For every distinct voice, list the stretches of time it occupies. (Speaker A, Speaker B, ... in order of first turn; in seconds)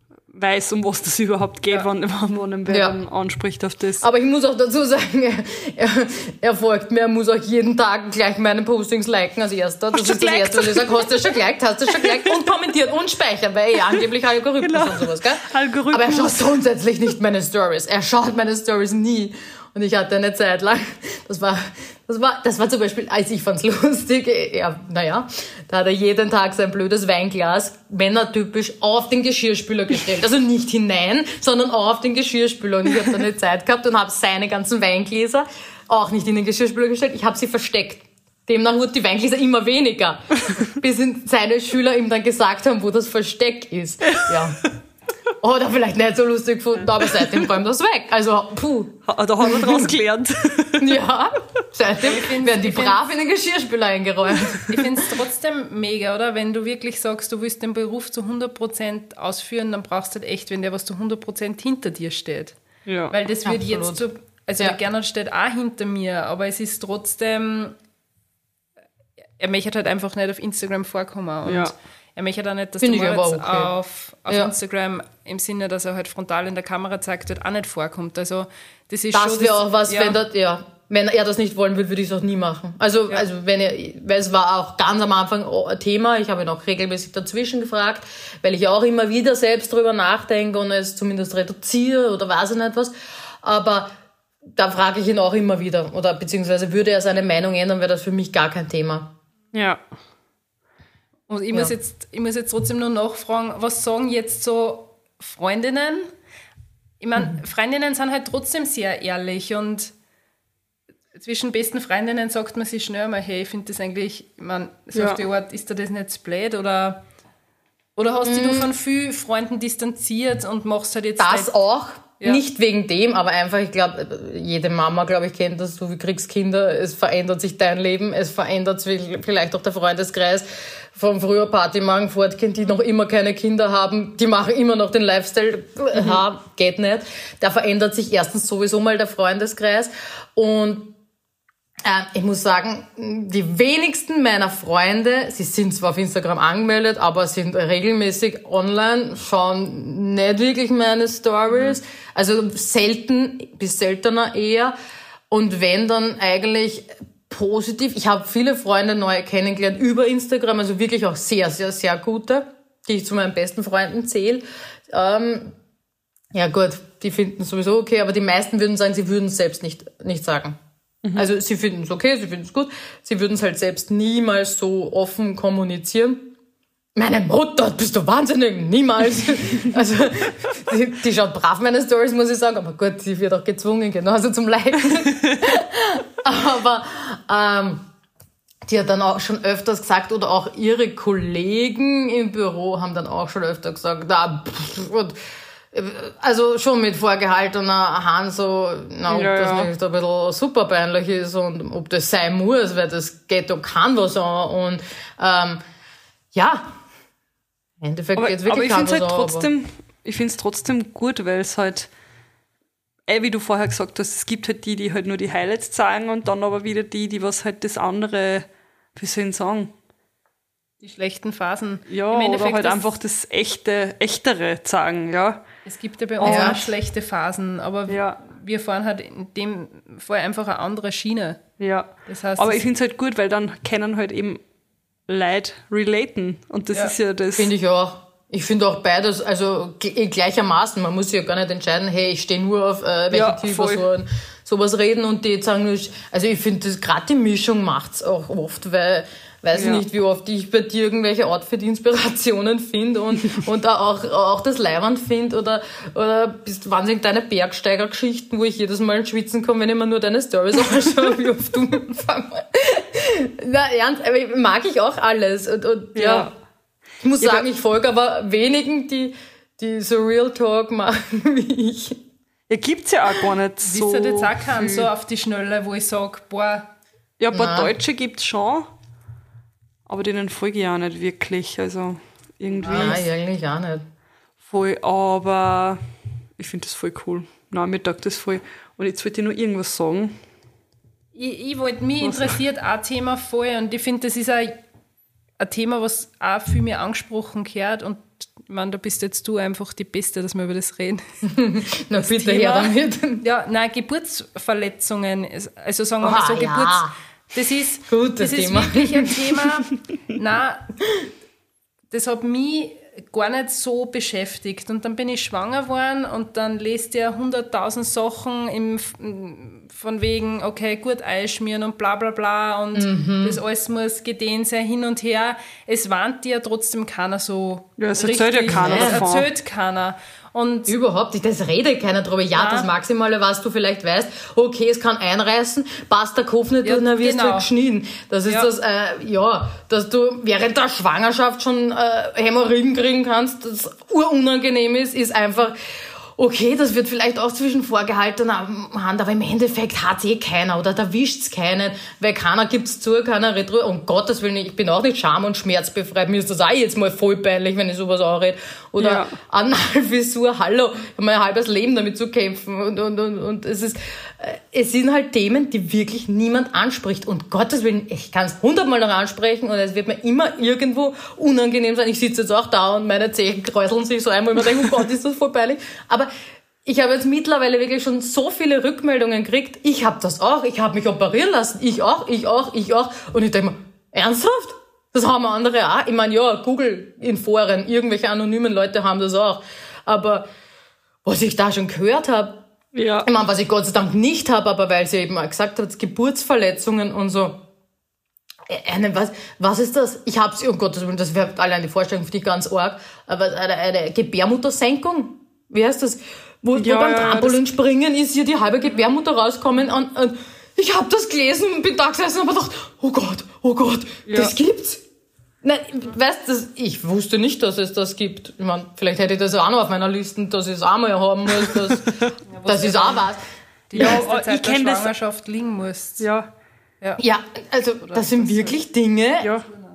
Speaker A: 0.3-4.0, 9.9-11.3, 11.9-12.4, 14.6-16.5, 49.1-51.0, 62.9-63.1, 71.4-71.7, 99.5-99.8, 114.9-115.2, 171.0-171.3, 199.1-199.7, 208.2-211.9, 213.1-219.7, 221.9-225.4, 226.2-226.6, 227.9-228.2, 231.6-234.4, 235.1-237.5, 243.1-243.9, 249.5-249.8, 265.9-266.3, 267.2-267.4, 272.5-274.9, 277.2-278.7, 279.9-283.1, 284.4-285.8, 286.4-290.2, 292.0-292.4, 327.8-329.3, 358.8-359.1, 392.7-393.1, 406.6-407.4, 414.1-414.4, 423.8-424.9, 426.0-426.3
Speaker B: 2.7-3.0, 4.0-44.6, 45.4-49.9, 50.8-54.8, 63.5-64.0, 72.8-73.7, 79.1-92.9, 93.4-93.9, 94.6-99.1, 118.3-118.7, 121.2-140.9, 141.8-154.7, 155.3-165.6, 166.3-170.6, 171.1-176.3, 177.0-187.9, 188.7-195.2, 195.7-205.6, 206.3-206.7, 207.8-209.5, 226.2-226.6, 237.4-266.3, 267.0-272.0, 277.3-277.7, 282.7-283.8, 301.2-303.2, 306.0-306.9, 307.9-309.4, 322.8-323.4, 328.5-329.0, 330.7-376.1, 376.6-390.3, 391.1-392.4, 393.1-397.4, 398.5-414.8, 415.4-421.9, 422.5-423.2, 427.0-429.4
Speaker C: 52.1-53.0, 54.7-62.6, 63.1-67.8, 69.4-80.2, 101.3-106.1, 107.0-109.9, 111.2-117.0, 118.0-121.5, 220.8-222.9, 225.7-231.4, 232.1-232.6, 273.6-276.7, 282.7-283.0, 291.1-294.6, 295.4-301.2, 302.0-310.7, 311.9-330.7, 332.4-332.7, 336.6-337.5, 422.3-423.0, 423.7-426.1, 427.9-428.6